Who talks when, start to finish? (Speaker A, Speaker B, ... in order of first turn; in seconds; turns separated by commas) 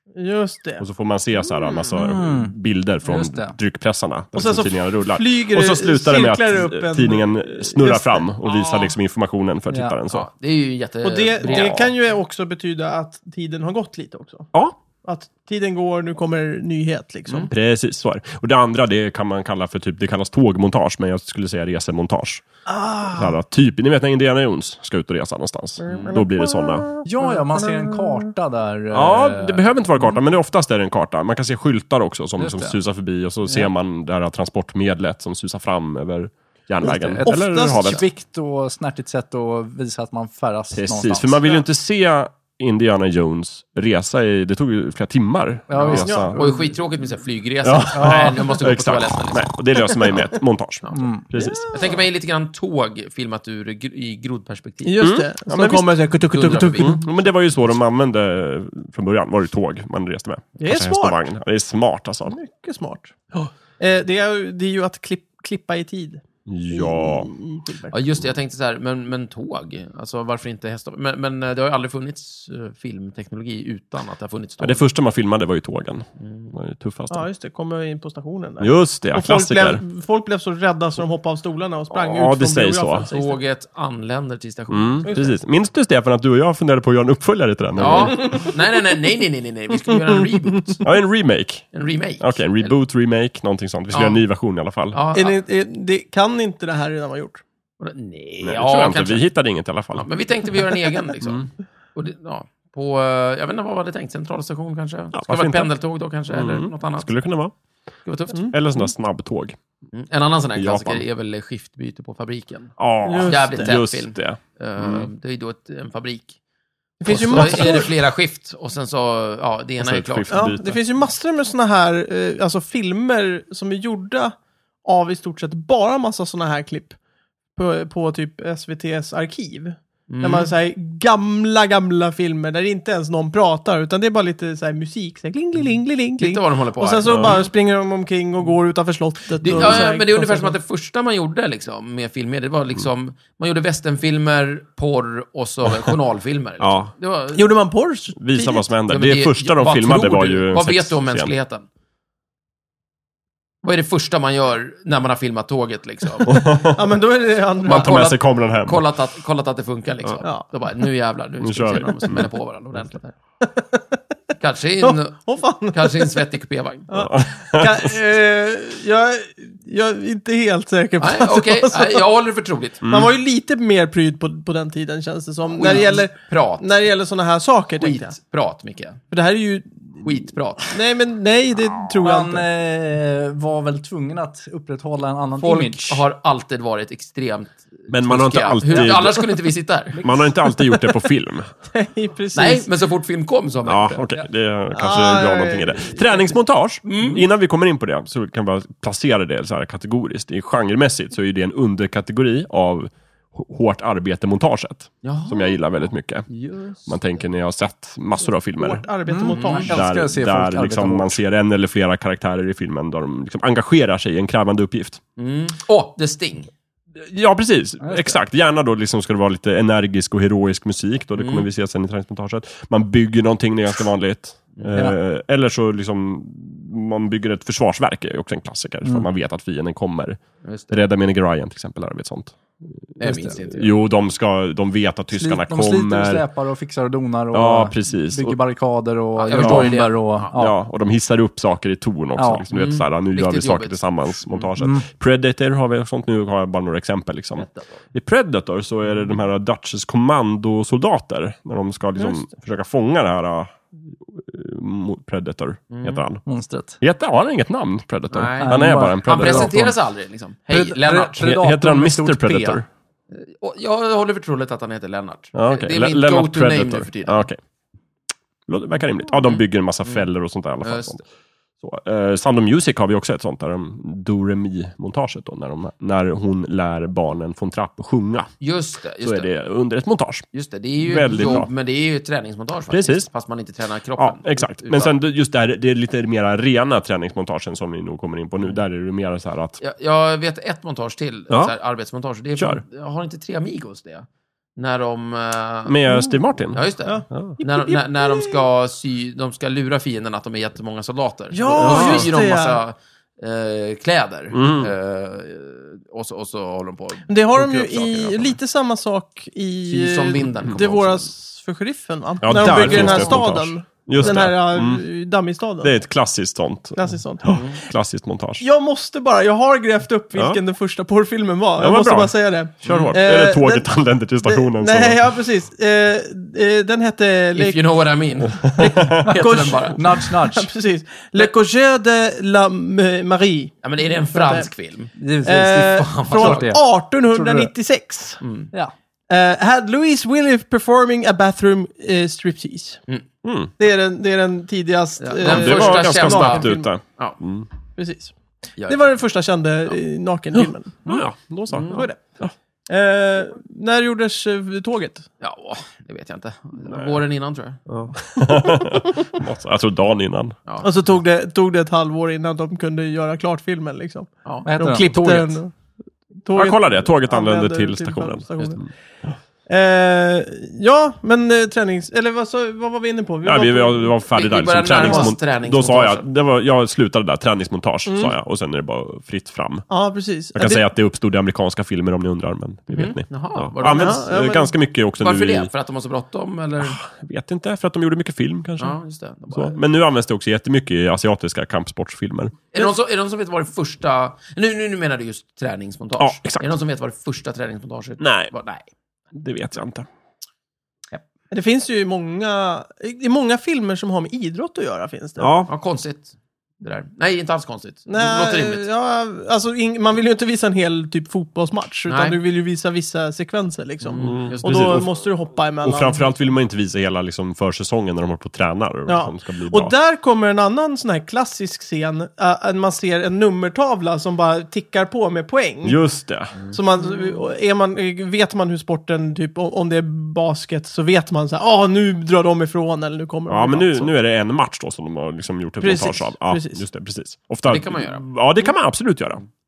Speaker A: 0.1-0.8, Speaker B: 0.8-10.3, Speaker A: 1.4-1.9, Speaker C: 1.9-3.6, Speaker A: 4.3-8.3, Speaker D: 8.4-8.9, Speaker C: 9.7-10.0, Speaker D: 10.1-11.9, Speaker A: 11.0-14.5, Speaker B: 11.5-11.9, Speaker A: 15.0-17.5, Speaker B: 17.5-22.4, Speaker A: 22.6-23.3, Speaker B: 23.1-26.9, Speaker A: 25.8-28.2, Speaker D: 25.9-26.2, Speaker C: 27.0-29.6, Speaker B: 28.9-38.0, Speaker C: 32.4-32.8, Speaker C: 36.8-41.4, Speaker A: 37.2-38.0, Speaker B: 40.7-46.4, Speaker C: 45.7-46.5, Speaker A: 46.0-46.5, Speaker D: 46.3-50.3, Speaker B: 47.6-51.7, Speaker C: 48.0-48.2, Speaker C: 50.9-51.3, Speaker A: 51.4-52.0, Speaker D: 51.7-55.1, Speaker A: 54.8-57.0, Speaker B: 55.0-62.4, Speaker D: 56.3-57.0, Speaker A: 60.6-61.2, Speaker A: 62.3-63.1, Speaker A: 63.8-67.9, Speaker B: 66.5-67.3, Speaker D: 67.9-74.8, Speaker B: 74.6-77.2, Speaker D: 76.2-76.5, Speaker A: 77.1-83.4, Speaker B: 78.6-79.8, Speaker B: 81.9-83.1, Speaker D: 83.1-85.1, Speaker B: 84.7-88.4, Speaker A: 85.1-85.3, Speaker D: 87.8-90.8, Speaker A: 88.2-88.5, Speaker A: 89.8-90.8, Speaker B: 90.8-95.0, Speaker D: 91.7-92.7, Speaker D: 93.9-94.2, Speaker D: 94.9-95.4, Speaker A: 95.1-97.4, Speaker D: 97.8-99.3, Speaker B: 98.4-100.1, Speaker D: 99.9-107.1, Speaker B: 101.2-101.5, Speaker B: 105.1-105.7, Speaker B: 106.3-107.5, Speaker D: 108.0-108.5, Speaker B: 108.5-109.6, Speaker D: 109.9-116.4, Speaker B: 110.5-111.0, Speaker B: 112.8-115.1, Speaker A: 113.0-113.7, Speaker A: 117.0-117.9, Speaker D: 117.0-120.5, Speaker B: 117.1-117.9, Speaker B: 119.8-120.8, Speaker A: 120.3-127.0, Speaker A: 127.5-140.6, Speaker D: 130.1-130.5, Speaker D: 136.2-137.5, Speaker B: 137.0-137.4, Speaker D: 139.4-147.5, Speaker B: 139.5-139.9, Speaker B: 146.6-146.9, Speaker A: 147.3-148.6, Speaker B: 148.2-151.3, Speaker D: 148.9-151.6, Speaker D: 153.6-156.6, Speaker B: 156.2-156.8, Speaker A: 156.7-158.0, Speaker D: 157.6-163.1, Speaker B: 157.6-158.9, Speaker B: 161.4-162.3, Speaker D: 164.4-166.9, Speaker A: 164.8-166.2, Speaker A: 166.9-172.1, Speaker B: 166.9-167.9, Speaker D: 171.0-172.8, Speaker B: 172.8-173.1, Speaker A: 172.8-178.1, Speaker D: 175.5-176.7, Speaker D: 177.8-179.0, Speaker A: 179.1-182.4, Speaker D: 180.0-180.8, Speaker C: 182.0-186.0, Speaker D: 185.4-190.1, Speaker B: 187.9-189.4, Speaker B: 189.9-191.5, Speaker A: 191.7-192.7, Speaker D: 192.3-194.1, Speaker B: 193.6-206.3, Speaker A: 194.7-196.3, Speaker D: 196.8-197.2, Speaker D: 205.0-205.6, Speaker D: 206.3-207.0, Speaker B: 206.8-208.8, Speaker A: 208.6-209.8, Speaker C: 209.1-211.2, Speaker D: 209.3-209.7, Speaker B: 209.6-215.0, Speaker D: 215.2-216.5, Speaker B: 216.9-232.8, Speaker C: 217.8-218.2, Speaker D: 221.2-221.4, Speaker D: 230.4-230.8, Speaker D: 233.0-233.8, Speaker C: 233.0-233.3, Speaker B: 233.5-236.2, Speaker C: 235.1-240.6, Speaker B: 237.3-238.4, Speaker D: 239.2-240.3, Speaker B: 239.3-256.2, Speaker C: 242.2-242.4, Speaker D: 242.5-244.5, Speaker C: 244.6-244.8, Speaker D: 247.4-247.7, Speaker D: 255.7-256.0, Speaker C: 256.2-256.8, Speaker B: 256.8-259.6, Speaker D: 258.1-261.3, Speaker C: 258.4-259.7, Speaker C: 260.5-262.6, Speaker B: 261.2-262.6, Speaker D: 263.1-267.3, Speaker B: 265.3-267.4, Speaker B: 268.5-271.0, Speaker D: 269.3-270.1, Speaker D: 270.6-271.0, Speaker B: 271.6-278.3, Speaker D: 278.4-279.3, Speaker B: 279.0-280.2, Speaker D: 280.3-284.9, Speaker B: 280.8-281.5, Speaker B: 282.7-283.1, Speaker B: 284.0-289.6, Speaker D: 289.6-295.8, Speaker B: 291.3-291.5, Speaker B: 292.4-292.6, Speaker B: 295.6-297.4, Speaker D: 296.5-308.4, Speaker A: 296.8-298.4, Speaker A: 301.3-302.6, Speaker B: 301.6-302.1, Speaker B: 304.3-304.7, Speaker A: 307.1-315.7, Speaker D: 309.6-311.1, Speaker B: 312.2-314.8, Speaker D: 312.3-313.2, Speaker B: 315.6-318.4, Speaker A: 316.8-317.4, Speaker D: 317.3-317.6, Speaker A: 318.4-323.7, Speaker B: 321.6-325.1, Speaker D: 322.6-323.0, Speaker A: 324.2-327.6, Speaker D: 327.3-330.0, Speaker B: 328.4-329.1, Speaker A: 328.6-333.6, Speaker C: 329.6-330.5, Speaker D: 333.6-334.9, Speaker A: 334.1-334.5, Speaker C: 335.0-337.5, Speaker A: 335.2-338.2, Speaker D: 335.4-336.6, Speaker D: 338.2-338.5, Speaker A: 339.1-342.8, Speaker B: 343.2-343.5, Speaker A: 343.6-346.7, Speaker D: 345.0-347.2, Speaker B: 345.2-347.5, Speaker A: 347.8-348.1, Speaker A: 348.7-350.8, Speaker B: 350.4-352.3, Speaker D: 351.5-351.9, Speaker A: 352.7-355.1, Speaker D: 355.2-357.6, Speaker B: 356.7-357.0, Speaker B: 357.7-360.4, Speaker D: 360.4-360.7, Speaker A: 360.6-365.5, Speaker C: 364.4-365.4, Speaker A: 366.2-368.6, Speaker B: 366.3-368.7, Speaker A: 369.5-373.9, Speaker B: 373.2-379.6, Speaker D: 374.1-376.0, Speaker A: 374.8-375.1, Speaker A: 377.9-378.1, Speaker A: 379.7-380.6, Speaker B: 380.3-385.5, Speaker D: 382.7-384.1, Speaker A: 383.6-384.5, Speaker D: 385.0-386.8, Speaker B: 386.6-388.8, Speaker D: 388.6-389.6, Speaker B: 389.3-392.3, Speaker D: 392.5-398.6, Speaker B: 396.0-396.5, Speaker B: 398.0-398.3, Speaker B: 399.1-399.9, Speaker A: 401.3-405.3, Speaker B: 405.2-405.5, Speaker D: 405.5-408.6, Speaker A: 407.9-416.1, Speaker D: 411.9-412.2, Speaker D: 413.8-414.8, Speaker B: 414.0-414.9, Speaker B: 415.6-419.7, Speaker A: 418.9-425.8, Speaker B: 425.6-426.3, Speaker D: 426.4-427.1, Speaker A: 426.5-433.9, Speaker B: 433.3-439.2, Speaker A: 435.6-436.6, Speaker D: 437.5-438.0